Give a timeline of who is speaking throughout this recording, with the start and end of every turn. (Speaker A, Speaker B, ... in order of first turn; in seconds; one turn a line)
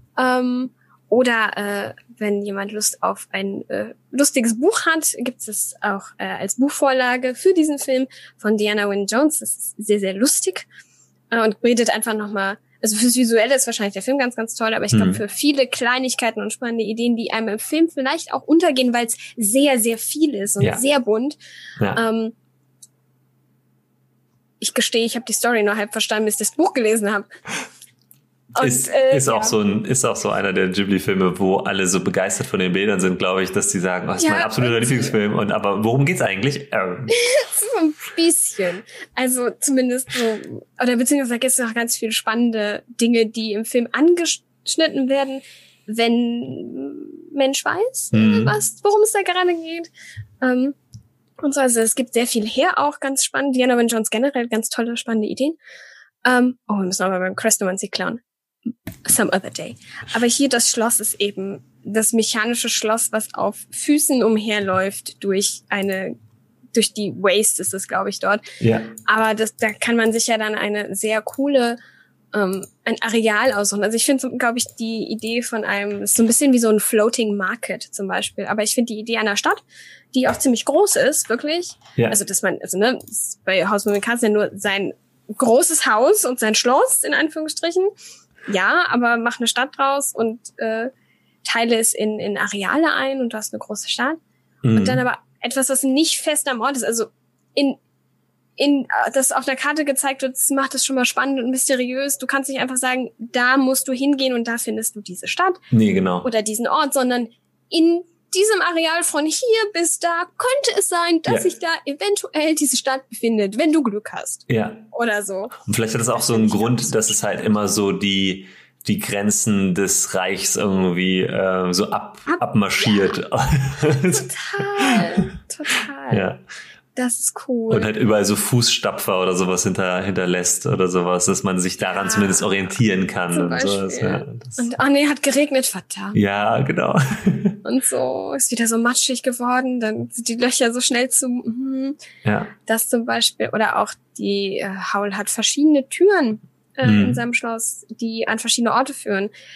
Speaker A: 0.2-10.7
Speaker A: 11.3-21.4
Speaker B: 14.9-15.2
Speaker A: 21.9-22.3
Speaker A: 24.6-27.3
Speaker A: 28.6-29.6
Speaker B: 28.6-37.2
Speaker A: 34.2-35.2
Speaker A: 37.1-49.9
Speaker B: 48.1-48.6
Speaker A: 50.4-50.8
Speaker A: 51.4-55.6
Speaker A: 56.2-58.2
Speaker A: 59.0-66.2
Speaker A: 66.7-68.4
Speaker B: 68.6-68.9
Speaker A: 69.0-71.8
Speaker A: 72.3-87.9
Speaker A: 88.5-90.9
Speaker A: 91.4-94.2
Speaker B: 94.6-95.0
Speaker A: 94.7-97.8
Speaker A: 98.6-105.6
Speaker B: 105.7-106.3
Speaker A: 106.2-115.6
Speaker B: 114.5-114.8
Speaker B: 115.6-125.1
Speaker A: 116.1-117.1
Speaker A: 122.3-123.2
Speaker A: 124.1-126.3
Speaker B: 126.1-126.4
Speaker A: 127.0-127.9
Speaker B: 127.7-134.7
Speaker A: 131.9-132.5
Speaker A: 133.3-136.2
Speaker B: 136.1-137.6
Speaker A: 137.6-142.0
Speaker B: 142.2-142.5
Speaker A: 142.6-149.3
Speaker B: 146.8-147.2